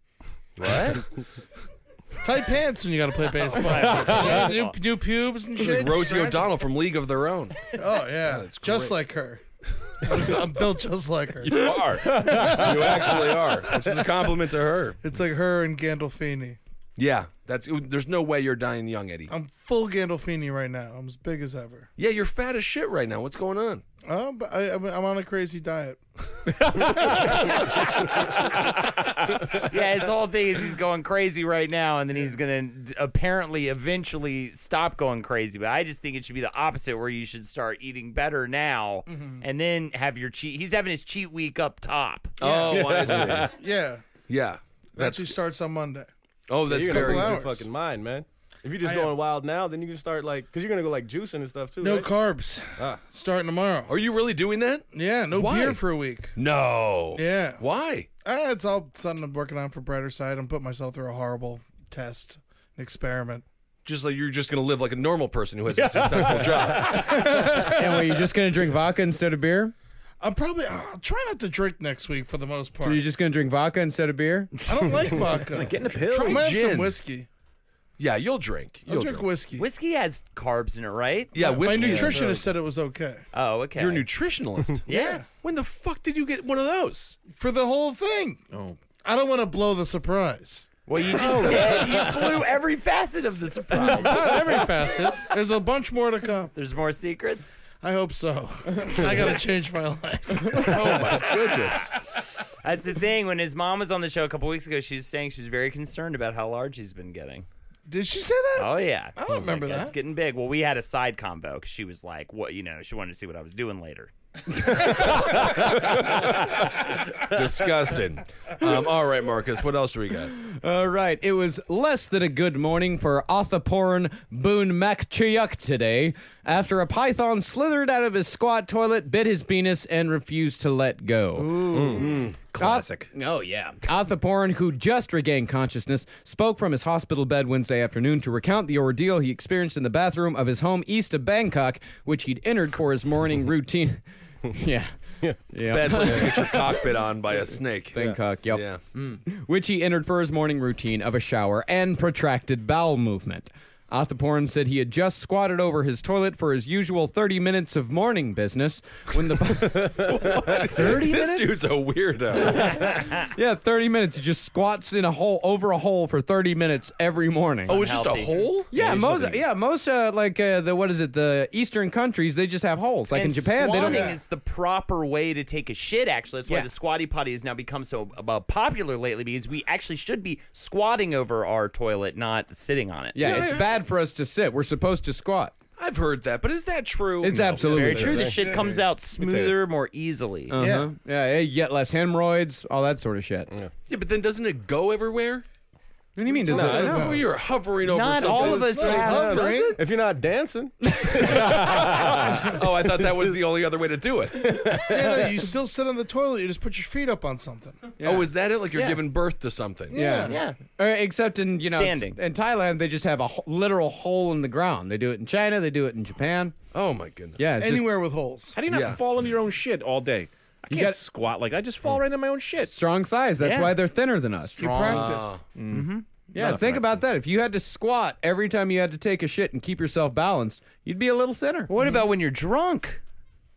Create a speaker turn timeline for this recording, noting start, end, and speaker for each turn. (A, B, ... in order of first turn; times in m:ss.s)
0:00.6-0:01.0 A
0:02.2-0:06.5 B
0:03.5-0:04.8 A
0:03.9-0:04.3 C
0:05.6-0:07.7 D
0:07.7-0:09.4 B
0:08.2-0:09.0 D
0:10.0-0:14.0 B
0:11.4-0:15.0 D
0:12.0-0:12.8 C
0:15.0-0:16.6 B
0:17.0-0:19.3 D
0:19.3-0:21.9 B
0:22.0-0:23.8 D
0:24.0-0:26.0 B
0:26.6-0:27.7 B
0:29.6-0:42.4 A
0:39.1-0:39.4 B
0:42.4-0:43.5 D
0:42.4-0:44.0 B
0:42.7-0:43.5 C
0:44.3-0:45.4 D
0:45.0-0:46.1 B
0:46.5-0:47.4 D
0:46.7-0:52.1 E
0:46.8-0:47.7 B
0:48.8-0:49.2 B
0:51.8-0:53.9 B
0:53.9-0:55.8 D
0:54.9-0:56.4 B
0:56.4-0:58.1 D
0:57.2-0:57.6 B
0:58.2-1:03.4 B
1:03.8-1:07.2 D
1:05.8-1:06.9 C
1:06.8-1:08.2 B
1:07.5-1:09.7 F
1:10.2-1:13.0 B
1:12.8-1:14.5 F
1:14.7-1:17.3 B
1:15.5-1:16.5 C
1:16.0-1:17.0 D
1:18.0-1:19.3 D
1:18.9-1:19.7 B
1:19.6-1:21.3 A
1:21.3-1:22.4 D
1:21.4-1:23.2 B
1:21.7-1:22.2 C
1:23.3-1:24.1 A
1:23.8-1:24.9 D
1:24.9-1:25.4 A
1:24.9-1:25.2 B
1:25.4-1:27.2 D
1:27.3-1:28.4 B
1:28.5-1:28.8 C
1:29.0-1:30.7 B
1:30.9-1:34.6 A
1:33.7-1:36.5 B
1:36.6-1:37.6 A
1:37.7-1:41.8 B
1:40.6-1:41.9 D
1:42.6-1:47.5 A
1:47.9-1:50.0 B
1:48.6-1:54.1 A
1:55.6-2:00.3 D
2:00.4-2:26.8 F
2:11.7-2:13.1 C
2:11.7-2:12.2 E
2:11.8-2:12.3 D
2:25.7-2:28.8 D
2:27.9-2:40.1 F
2:29.0-2:29.2 A
2:39.8-2:42.8 D
2:40.8-2:41.5 C
2:42.6-2:43.2 A
2:43.2-2:47.8 F
2:47.7-2:48.5 A
2:47.7-2:48.7 D
2:48.7-2:54.1 F
2:48.8-2:49.3 C
2:53.1-3:03.6 A
2:53.8-2:54.2 B
3:03.1-3:05.5 F
3:03.2-3:03.7 D
3:05.8-3:07.6 D
3:07.2-3:08.2 F
3:07.3-3:08.3 C
3:07.6-3:10.6 A
3:07.9-3:08.4 E
3:08.4-3:08.7 B
3:10.5-3:13.5 F
3:10.6-3:10.9 B
3:13.9-3:15.4 D
3:16.2-3:17.2 F
3:16.3-3:17.3 B
3:16.5-3:17.0 E
3:16.6-3:18.9 D
3:17.8-3:19.7 A
3:18.3-3:19.8 B
3:18.3-3:23.2 E
3:21.0-3:21.3 F
3:21.3-3:24.6 D
3:24.4-3:25.3 E
3:24.8-3:27.9 B
3:28.0-3:28.3 F
3:28.0-3:30.0 D
3:28.7-3:29.0 A
3:29.9-3:30.4 B
3:29.9-3:36.6 F
3:30.2-3:30.6 A
3:31.6-3:32.2 A
3:36.7-3:37.4 D
3:37.4-3:37.9 F
3:37.6-3:38.6 B
3:38.5-3:42.8 C
3:38.7-3:39.0 D
3:40.7-3:41.0 F
3:42.6-3:44.7 F
3:43.4-3:43.8 A
3:44.6-3:45.2 A
3:44.6-3:45.4 B
3:44.9-3:45.4 D
3:45.6-3:46.9 C
3:45.7-3:46.0 A
3:46.3-3:51.7 F
3:51.7-3:53.0 A